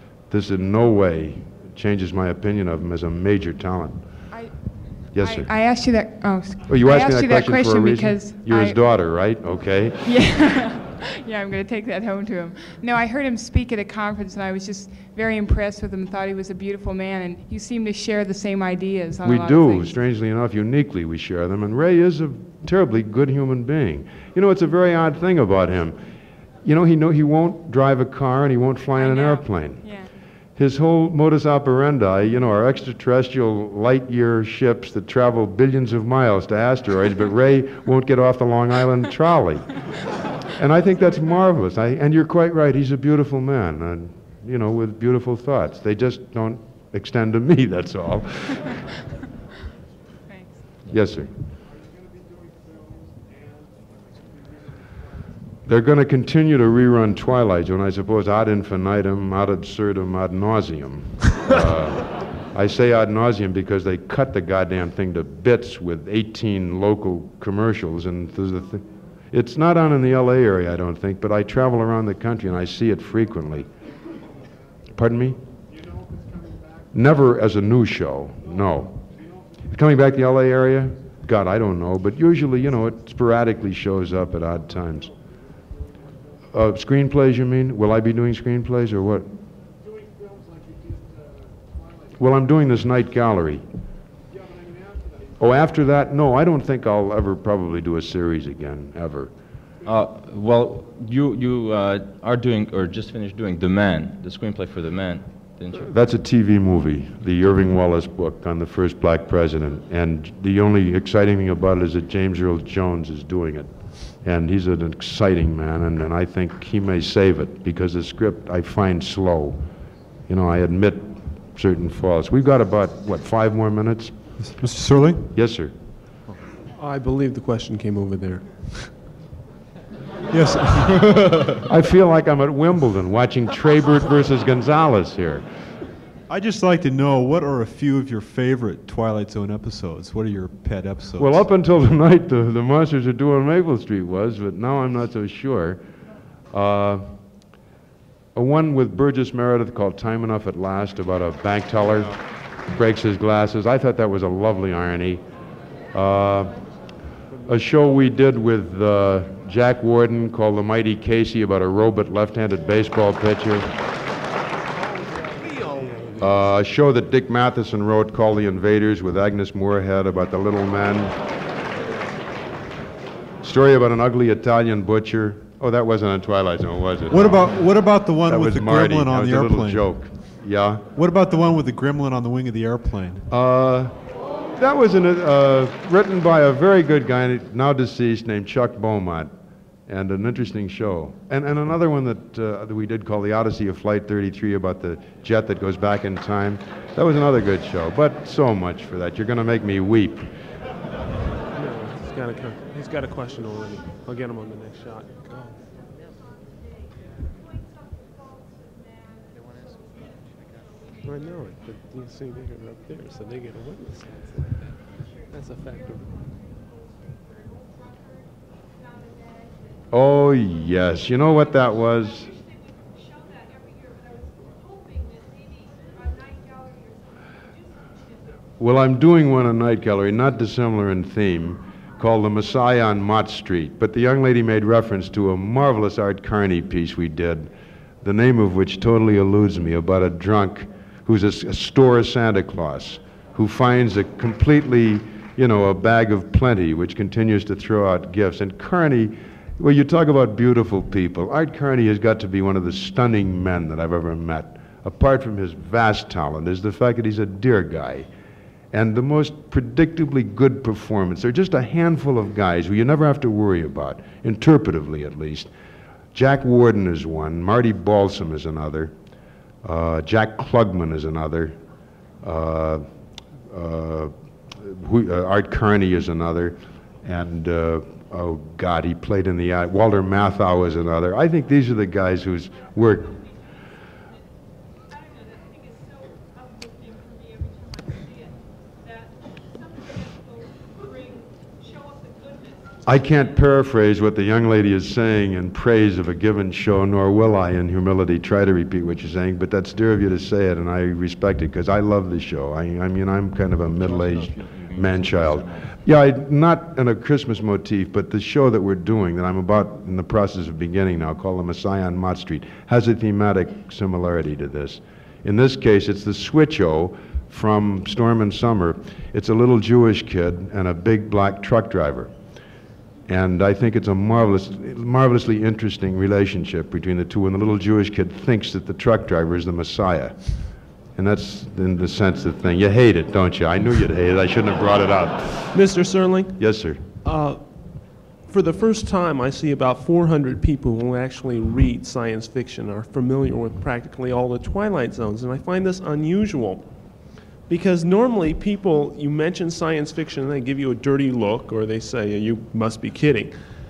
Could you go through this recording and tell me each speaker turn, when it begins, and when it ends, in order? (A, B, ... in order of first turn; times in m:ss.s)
0:00.3-0:04.0 A
0:04.3-0:08.8 B
0:05.1-0:05.6 A
0:06.7-0:10.4 A
0:10.0-0:19.9 B
0:19.2-0:26.0 A
0:26.6-0:30.0 A
0:29.0-0:30.1 B
0:30.6-0:39.8 A
0:40.5-0:48.8 A
0:50.3-0:50.6 B
0:50.9-0:51.4 A
0:55.7-1:13.7 A
1:14.9-1:15.4 A
1:16.9-1:19.1 A
1:19.6-1:25.2 A
1:26.5-1:29.3 A
1:32.2-1:33.7 A
1:35.4-1:39.3 A
1:39.8-1:45.9 C
1:45.7-1:59.6 A
2:00.3-2:04.3 A
2:04.4-2:05.3 D
2:05.3-2:05.7 A
2:06.8-2:09.0 E
2:10.3-2:11.6 D
2:11.6-2:15.4 A
2:16.3-2:21.5 D
2:21.2-2:25.8 A
2:26.5-2:27.2 A
2:28.4-2:35.2 A
2:35.9-2:36.6 A
2:37.4-2:43.7 A
2:45.4-2:46.2 E
2:46.2-2:51.2 A
2:53.4-2:57.7 A
2:57.1-2:59.9 D
2:58.2-3:00.9 A
3:00.9-3:03.2 D
3:03.3-3:04.0 A
3:04.5-3:09.3 A
3:09.9-3:20.3 A
3:21.5-3:25.6 E
3:31.0-3:36.1 E
3:39.9-3:42.4 A
3:48.6-3:57.5 A
3:58.0-4:18.1 A
4:18.7-4:25.5 A
4:26.1-4:28.9 A
4:29.6-4:31.6 A
4:32.2-4:32.8 A
4:33.5-4:43.3 A
4:52.8-5:22.1 A
5:03.8-5:05.8 C
5:23.1-5:35.6 A
5:35.5-5:36.4 E
5:36.4-5:36.8 A
5:37.0-5:46.7 E
5:47.4-5:53.4 E